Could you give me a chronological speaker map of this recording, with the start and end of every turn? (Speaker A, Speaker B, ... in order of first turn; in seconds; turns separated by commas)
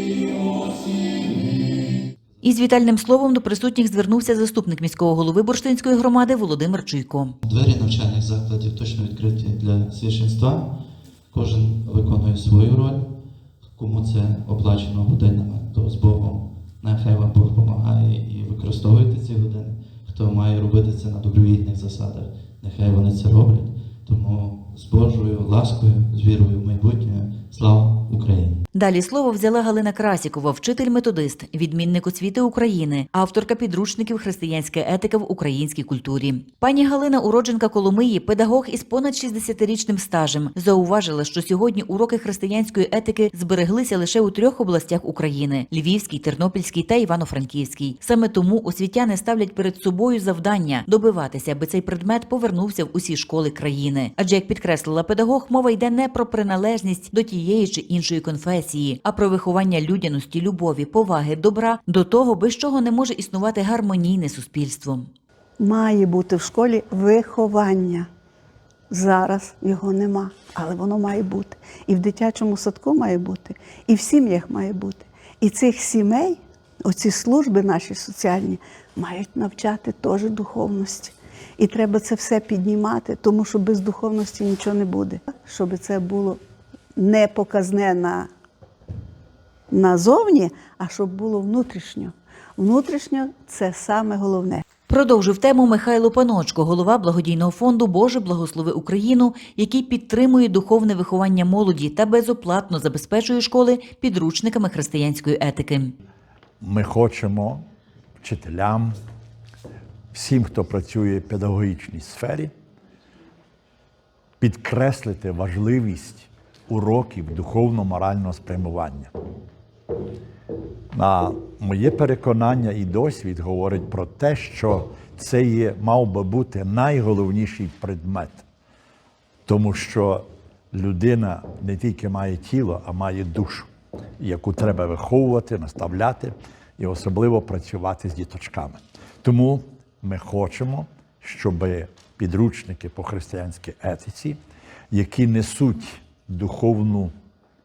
Speaker A: 2.4-7.3, Speaker B: 7.4-10.7, Speaker B: 11.3-13.1, Speaker B: 13.7-28.6, Speaker A: 28.7-65.0, Speaker C: 65.6-68.1, Speaker C: 68.9-86.4, Speaker C: 87.0-88.3, Speaker C: 89.7-94.6, Speaker A: 94.9-105.9, Speaker D: 106.6-107.6, Speaker D: 108.2-109.0, Speaker D: 110.1-112.5, Speaker D: 114.4-119.1, Speaker D: 120.9-128.4, Speaker D: 129.4-133.7, Speaker D: 134.2-144.4, Speaker D: 144.9-147.1